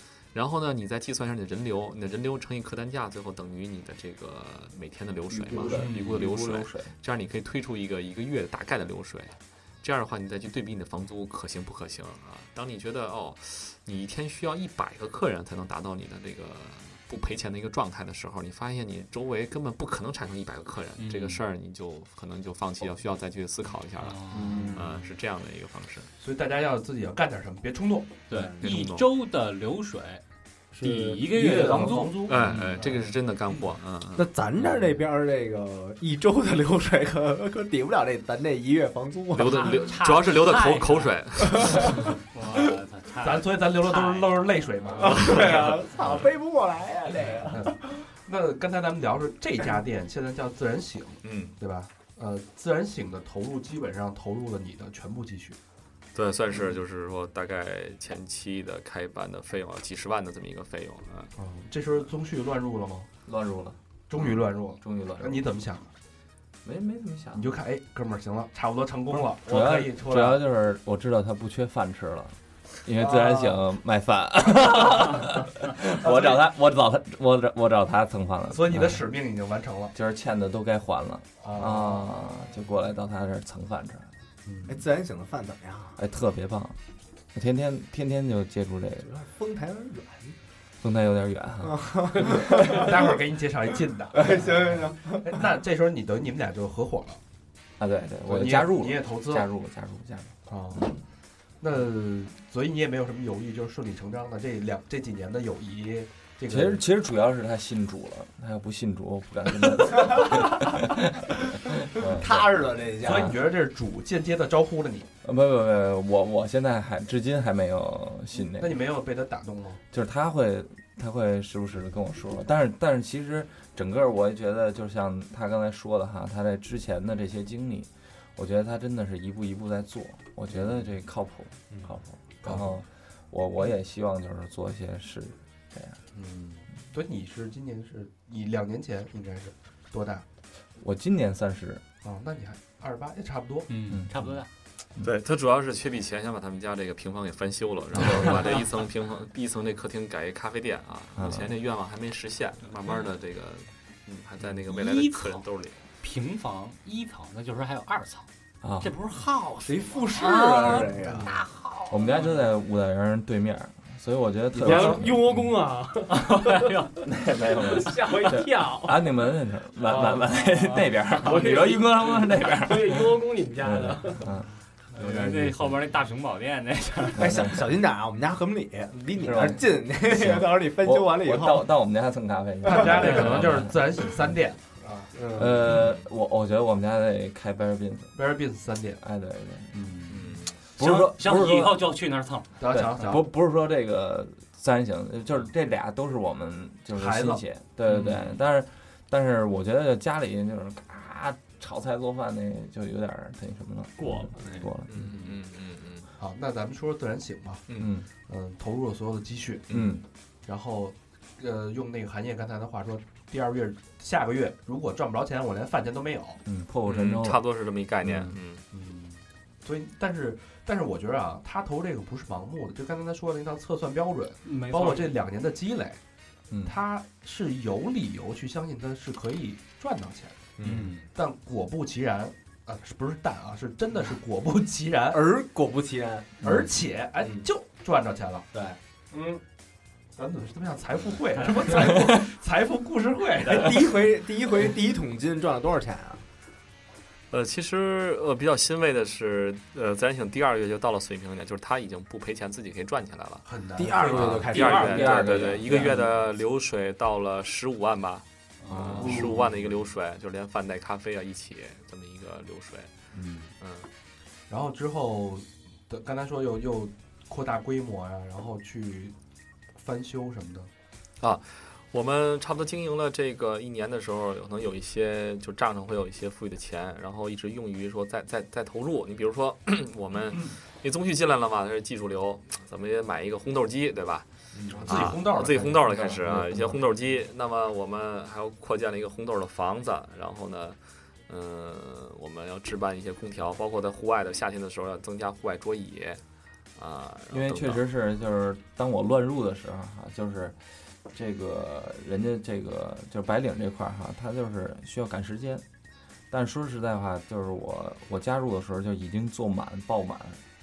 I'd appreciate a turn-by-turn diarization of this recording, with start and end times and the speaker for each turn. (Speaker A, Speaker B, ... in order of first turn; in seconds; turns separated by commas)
Speaker A: 0.3-26.1, Speaker B: 5.3-6.9, Speaker C: 5.7-6.2, Speaker C: 21.0-21.4, Speaker C: 24.0-24.9, Speaker D: 24.3-24.7, Speaker E: 24.4-24.8, Speaker D: 26.2-28.2, Speaker C: 28.3-30.2, Speaker A: 28.6-29.1, Speaker E: 30.7-31.1, Speaker C: 30.8-33.1, Speaker D: 31.2-32.6, Speaker A: 32.2-34.3, Speaker E: 34.1-39.8, Speaker A: 39.3-42.0, Speaker C: 39.4-44.6, Speaker D: 43.2-45.6, Speaker E: 45.0-47.8, Speaker A: 45.2-45.8, Speaker D: 47.5-55.6, Speaker A: 51.2-51.6, Speaker A: 56.1-61.3, Speaker D: 61.4-63.1, Speaker B: 63.2-65.4, Speaker D: 64.1-65.9, Speaker B: 66.6-67.6, Speaker D: 67.3-70.4, Speaker B: 69.4-79.0, Speaker D: 73.0-73.5, Speaker D: 76.0-76.4, Speaker D: 78.5-79.9, Speaker B: 79.9-84.1, Speaker D: 81.4-82.1, Speaker D: 84.4-84.8, Speaker E: 84.7-86.0, Speaker B: 86.0-86.8, Speaker B: 87.3-89.1, Speaker E: 89.0-90.3, Speaker B: 90.8-92.4, Speaker E: 91.6-93.1, Speaker D: 92.4-97.2, Speaker E: 94.1-95.3, Speaker B: 97.8-101.0, Speaker D: 98.2-99.5, Speaker D: 100.5-100.9, Speaker D: 101.6-106.8, Speaker B: 106.5-112.5, Speaker E: 112.0-113.3, Speaker D: 113.0-115.1, Speaker B: 113.0-113.3, Speaker B: 115.2-118.8, Speaker D: 118.3-119.8, Speaker B: 119.9-136.0, Speaker D: 130.5-130.8, Speaker D: 132.4-132.8, Speaker D: 136.1-140.2, Speaker B: 140.8-141.8, Speaker D: 142.0-143.7, Speaker C: 143.7-144.5, Speaker B: 143.9-144.4, Speaker A: 145.0-155.8, Speaker B: 151.2-151.5, Speaker C: 154.7-155.4, Speaker C: 156.0-158.3, Speaker B: 158.6-158.9, Speaker C: 158.8-162.4, Speaker E: 159.7-161.3, Speaker D: 160.4-161.3, Speaker B: 161.9-165.5, Speaker D: 164.5-165.0, Speaker F: 164.6-166.8, Speaker C: 166.1-167.0, Speaker B: 167.0-174.5, Speaker F: 167.5-169.1, Speaker F: 169.8-170.7, Speaker C: 170.6-171.3, Speaker F: 171.2-174.3, Speaker C: 174.9-177.5, Speaker E: 177.1-181.7, Speaker B: 177.2-177.6, Speaker B: 179.2-183.8, Speaker D: 182.6-185.1, Speaker C: 183.0-183.6, Speaker E: 185.1-185.7, Speaker B: 185.3-188.2, Speaker D: 188.1-189.0, Speaker B: 189.0-189.8, Speaker D: 189.7-190.2, Speaker A: 190.1-190.6, Speaker C: 190.8-192.5, Speaker B: 190.8-191.8, Speaker D: 192.6-193.3, Speaker B: 192.6-205.2, Speaker D: 196.9-197.4, Speaker C: 197.9-198.4, Speaker A: 204.9-206.1, Speaker D: 206.2-207.6, Speaker B: 207.8-208.1, Speaker D: 208.3-209.9, Speaker B: 209.7-210.0, Speaker D: 210.4-216.4, Speaker B: 216.4-217.4, Speaker A: 216.8-218.6, Speaker D: 218.7-226.0, Speaker C: 224.4-225.2, Speaker B: 226.5-226.8, Speaker D: 226.6-230.5, Speaker E: 230.6-230.9, Speaker C: 230.6-231.0, Speaker D: 231.1-235.2, Speaker E: 235.1-236.6, Speaker D: 236.4-238.5, Speaker E: 237.2-237.5, Speaker E: 238.5-238.8, Speaker D: 239.1-239.4, Speaker D: 240.2-244.1, Speaker E: 243.4-246.2, Speaker A: 247.3-253.4, Speaker D: 253.4-254.8, Speaker E: 253.7-256.0, Speaker A: 254.0-262.9, Speaker B: 254.5-255.8, Speaker C: 258.6-259.4, Speaker D: 258.9-259.4, Speaker D: 263.1-263.4, Speaker A: 263.6-263.9, Speaker D: 264.5-269.1, Speaker D: 269.8-270.7, Speaker A: 271.2-284.3, Speaker E: 284.6-284.8, Speaker D: 284.7-286.8, Speaker A: 284.9-296.2, Speaker A: 296.8-297.8, Speaker B: 297.3-300.6, Speaker B: 301.1-305.6, Speaker B: 306.3-310.4